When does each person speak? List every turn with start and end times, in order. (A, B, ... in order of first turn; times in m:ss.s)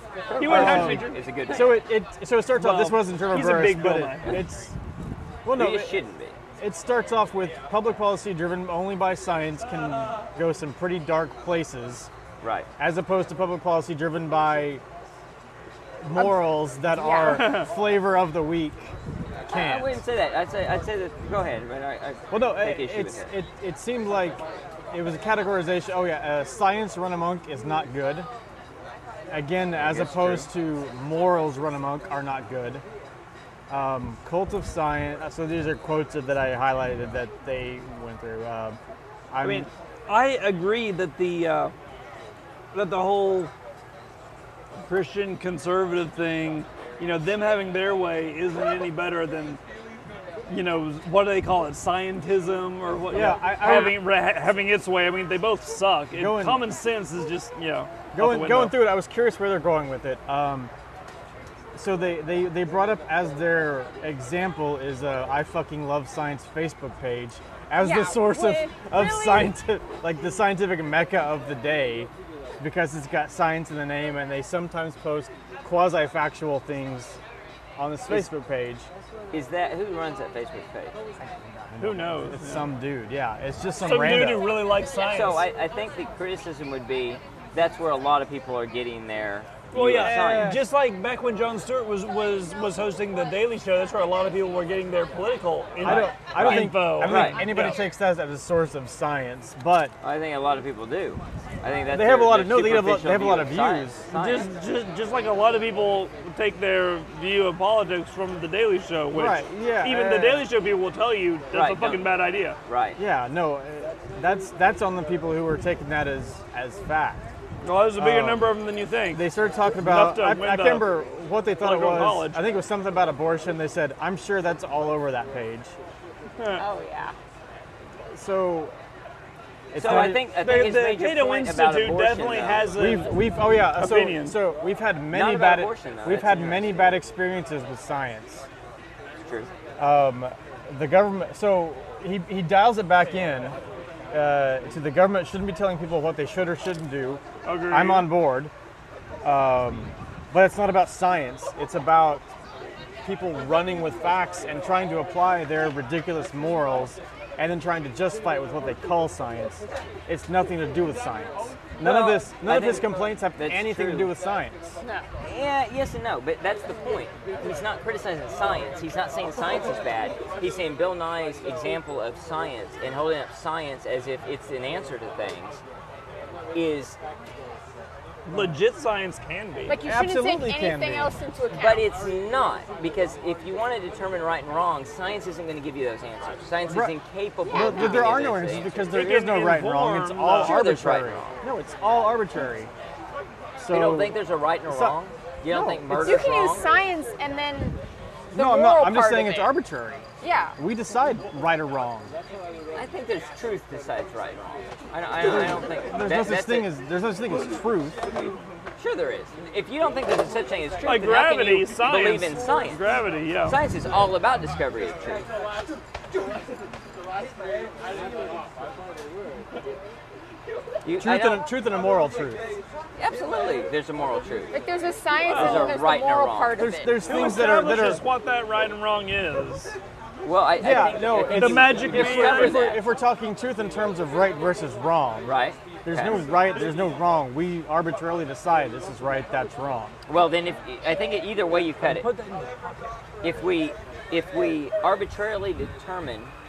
0:00.3-0:01.9 A
0:00.3-0:01.3 B
0:00.4-0:04.7 C
0:02.5-0:04.4 B
0:05.4-0:06.0 C
0:05.5-0:06.4 A
0:06.6-0:12.1 C
0:12.4-0:12.7 A
0:12.8-0:14.8 C
0:16.0-0:19.0 C
0:16.2-0:17.6 D
0:17.2-0:17.7 B
0:19.4-0:23.3 A
0:19.5-0:20.0 C
0:22.3-0:28.3 C
0:29.3-0:32.8 C
0:29.7-0:30.5 A
0:33.7-0:38.8 C
0:39.3-0:39.7 C
0:39.4-0:41.7 B
0:42.7-0:43.5 B
0:44.8-0:49.6 B
0:50.5-0:58.9 B
0:53.1-0:54.1 C
0:56.1-0:56.6 C
0:58.1-1:00.7 C
1:01.7-1:17.2 C
1:07.8-1:09.5 D
1:17.8-1:18.9 C
1:19.3-1:21.0 A
1:21.2-1:24.5 C
1:21.8-1:22.7 B
1:23.8-1:25.4 B
1:25.0-1:30.6 A
1:29.7-1:37.8 B
1:29.8-1:30.6 C
1:35.8-1:39.9 C
1:36.4-1:37.4 A
1:40.0-1:44.5 A
1:41.9-1:44.0 C
1:44.1-1:52.6 B
1:49.1-1:50.5 C
1:51.5-1:52.1 A
1:52.6-1:53.0 A
1:53.0-1:57.3 C
1:57.6-1:59.2 B
1:58.0-1:58.5 C
1:59.1-2:05.7 C
1:59.8-2:00.9 B
2:01.6-2:02.4 B
2:06.4-2:06.6 B
2:06.6-2:07.1 D
2:08.1-2:08.7 C
2:09.7-2:10.2 C
2:09.7-2:12.7 A
2:09.8-2:14.4 B
2:12.7-2:18.5 C
2:15.1-2:17.0 A
2:19.2-2:19.5 A
2:19.8-2:23.6 C
2:24.1-2:28.5 C
2:27.4-2:28.1 B
2:29.2-2:32.3 C
2:33.0-2:44.8 C
2:41.8-2:44.1 A
2:45.2-2:55.6 A
2:56.5-2:57.0 A
2:58.3-2:59.8 B
2:59.6-3:01.9 D
2:59.8-3:01.1 C
3:01.5-3:08.9 A
3:06.7-3:06.9 C
3:07.4-3:08.0 D
3:07.5-3:12.7 C
3:08.9-3:10.6 B
3:10.3-3:11.4 A
3:13.6-3:15.0 C
3:13.7-3:16.7 A
3:15.5-3:16.3 C
3:15.9-3:17.8 D
3:18.3-3:19.6 D
3:18.3-3:20.0 C
3:20.2-3:20.6 D
3:20.6-3:22.1 C
3:22.7-3:26.7 A
3:25.2-3:28.0 C
3:28.8-3:32.8 A
3:30.8-3:33.6 B
3:33.4-3:35.3 A
3:40.8-3:41.4 A
3:41.0-3:42.4 C
3:43.0-3:44.5 A
3:44.5-3:47.0 D
3:45.2-3:45.8 B
3:45.3-3:46.6 A
3:46.6-3:48.0 C
3:47.0-3:49.7 B
3:50.2-3:52.8 A
3:50.6-4:00.0 C
3:51.1-3:52.7 B
3:55.2-3:56.2 A
4:00.1-4:02.1 A
4:01.8-4:02.8 B
4:03.2-4:06.3 A